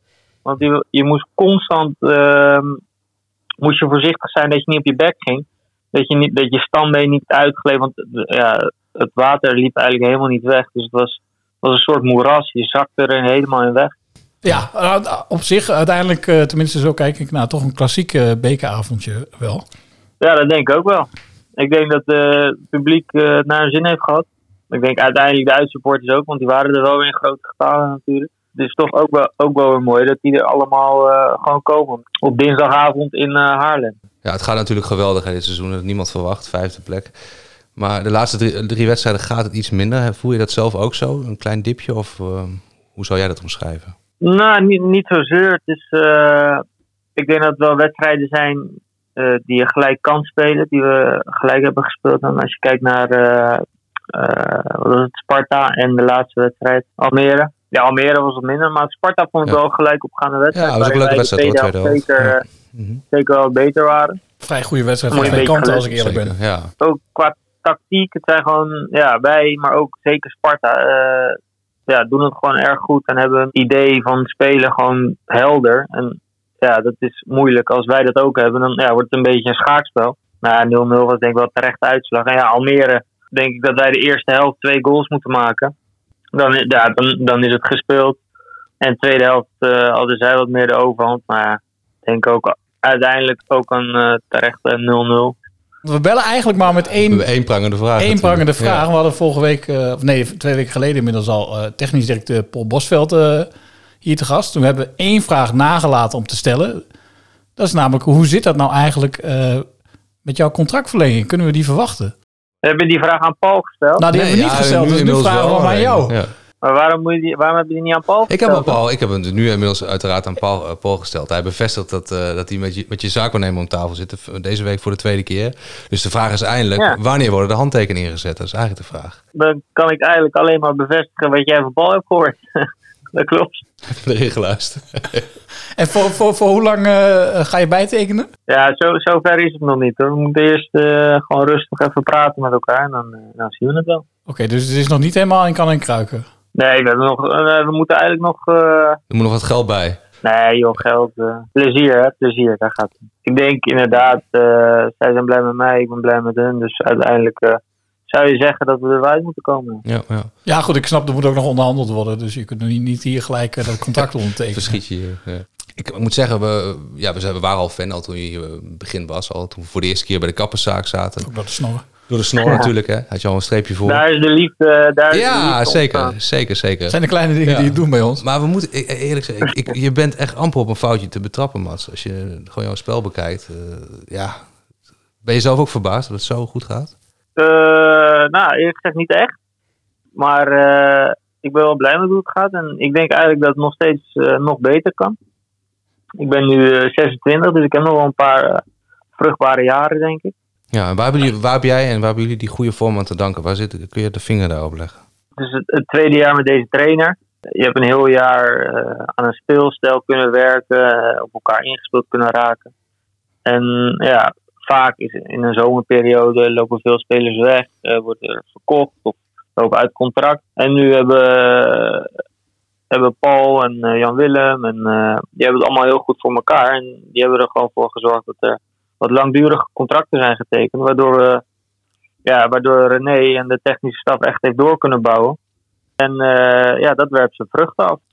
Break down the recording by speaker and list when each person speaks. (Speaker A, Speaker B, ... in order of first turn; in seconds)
Speaker A: 0.4-2.8, 3.6-13.9, 20.2-34.0, 44.2-46.6, 47.1-53.6, 54.1-62.4, 63.1-64.2, 65.1-65.9, 66.8-85.7, 86.3-88.2, 88.8-95.3, 112.6-114.0, 116.6-118.8, 129.3-132.4, 133.1-133.6, 138.5-144.0, 146.5-149.0, 150.2-159.8, 172.4-172.7, 173.8-176.2, 187.4-189.3, 190.2-195.2, 196.2-198.6, 199.2-200.3, 205.4-212.7, 213.4-222.1, 222.9-231.4, 232.2-235.4, 236.0-238.0
Speaker B: 14.4-19.6, 64.4-66.3, 95.8-97.2, 98.0-103.5, 104.0-106.8, 107.6-109.7, 110.2-112.1, 114.0-116.2, 135.8-138.3, 144.3-146.2, 160.4-164.8, 171.2-171.8, 176.9-178.2
Speaker C: 34.2-37.1, 37.8-43.9, 60.5-63.0, 65.9-66.7, 97.1-98.8, 114.1-116.3, 118.3-129.2, 133.9-135.3, 149.1-150.0, 159.8-160.3, 164.5-171.3, 172.1-174.0, 175.1-184.4, 185.2-186.9, 200.7-205.0